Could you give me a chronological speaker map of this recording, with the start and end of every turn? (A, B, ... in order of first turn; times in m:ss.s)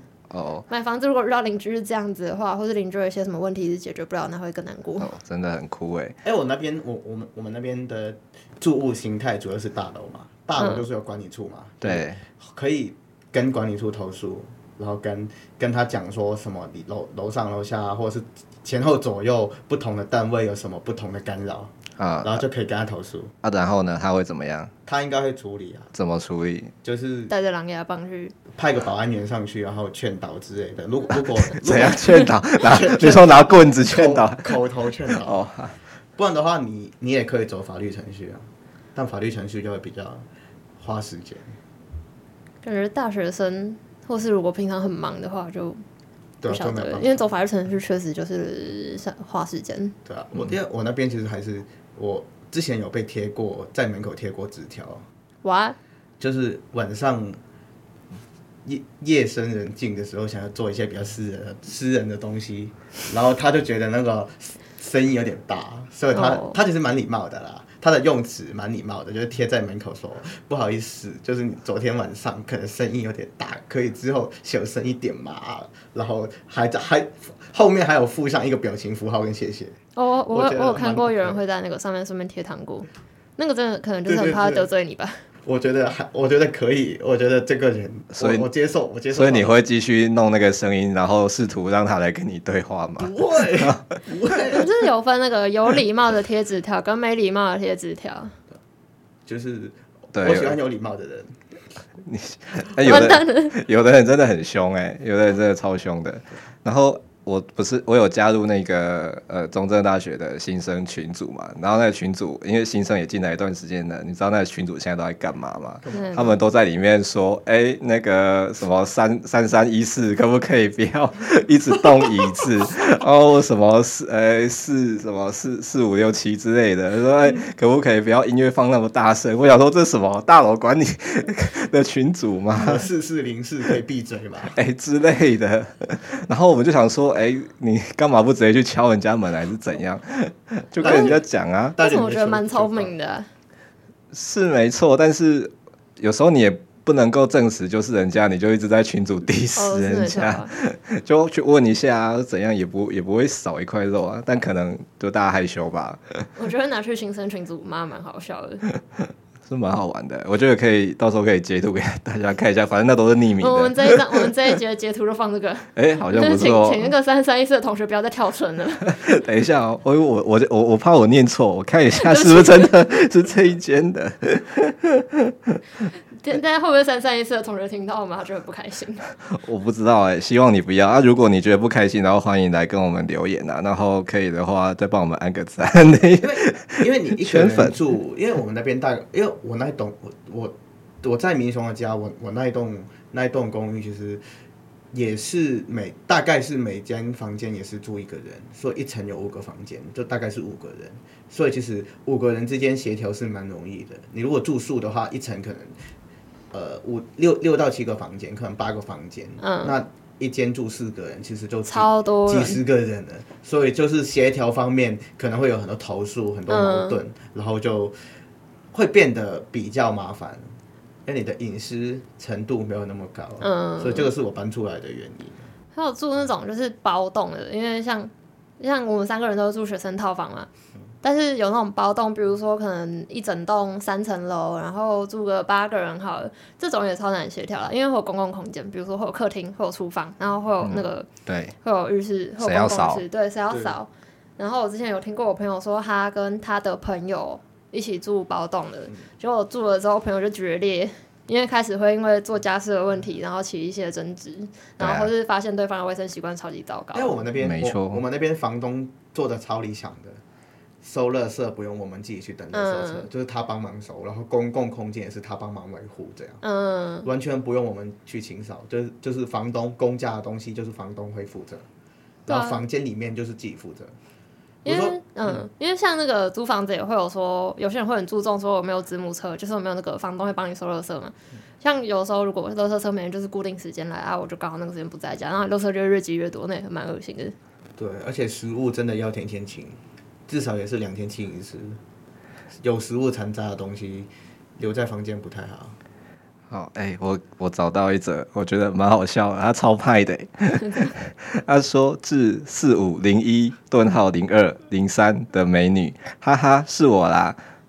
0:00.3-0:00.7 A
0:00.7-0:05.1 B
0:05.0-0:06.2 A
0:06.2-0:23.3 C
0:10.6-0:10.8 B
0:11.8-0:12.2 A
0:22.0-0:22.4 A
0:23.4-0:24.7 A
0:24.8-0:25.9 C
0:25.9-0:26.7 A
0:26.8-0:27.3 C
0:27.3-0:28.3 B
0:28.5-0:35.4 C
0:31.6-0:35.8 A
0:36.2-0:40.2 C
0:40.8-0:41.5 C
0:42.6-0:45.8 B
0:46.4-0:47.3 C
0:46.5-0:50.0 B
0:50.0-0:55.0 C
0:55.4-0:55.8 B
0:56.2-0:57.4 C
0:58.6-1:19.8 C
1:06.1-1:06.6 B
1:20.0-1:25.2 B
1:20.3-1:21.4 C
1:24.0-1:24.7 C
1:25.4-1:29.6 C
1:28.1-1:28.5 A
1:29.1-1:33.8 A
1:33.0-1:34.7 C
1:34.5-1:38.4 B
1:39.2-1:41.4 C
1:40.1-1:40.6 A
1:42.0-2:12.9 A
1:42.8-1:43.5 B
1:55.8-1:56.3 C
1:55.9-1:56.4 B
2:12.5-2:14.6 C
2:14.5-2:21.8 A
2:20.8-2:21.2 C
2:20.8-2:21.2 B
2:21.8-2:22.9 C
2:21.8-2:23.3 B
2:24.1-2:36.3 A
2:29.6-2:30.5 B
2:36.4-2:38.6 B
2:39.4-2:44.0 A
2:43.4-2:49.0 B
2:45.7-2:46.9 A
2:48.9-2:55.6 A
2:52.0-2:52.7 B
2:56.2-2:59.1 B
2:59.3-3:07.8 A
3:06.2-3:14.2 C
3:14.9-3:25.8 C
3:26.5-3:38.0 C
3:29.4-3:29.8 B
3:31.7-3:32.6 B
3:36.5-3:37.0 B
3:38.7-3:40.5 C
3:41.0-3:45.5 C
3:43.4-3:44.1 B
3:45.7-3:50.5 B
3:51.0-4:01.1 B
4:00.6-4:01.6 A
4:01.6-4:17.2 B
4:02.4-4:03.0 A
4:14.8-4:15.1 A
4:16.9-4:20.2 C
4:17.4-4:18.0 A
4:20.8-4:26.4 C
4:22.5-4:23.1 B
4:26.4-4:27.1 B
4:27.0-4:31.6 C
4:32.2-4:33.9 C
4:32.3-4:32.6 B
4:34.6-4:35.4 C
4:34.6-4:47.3 B
4:47.8-4:51.8 C
4:52.6-4:55.8 C
4:56.5-5:07.4 A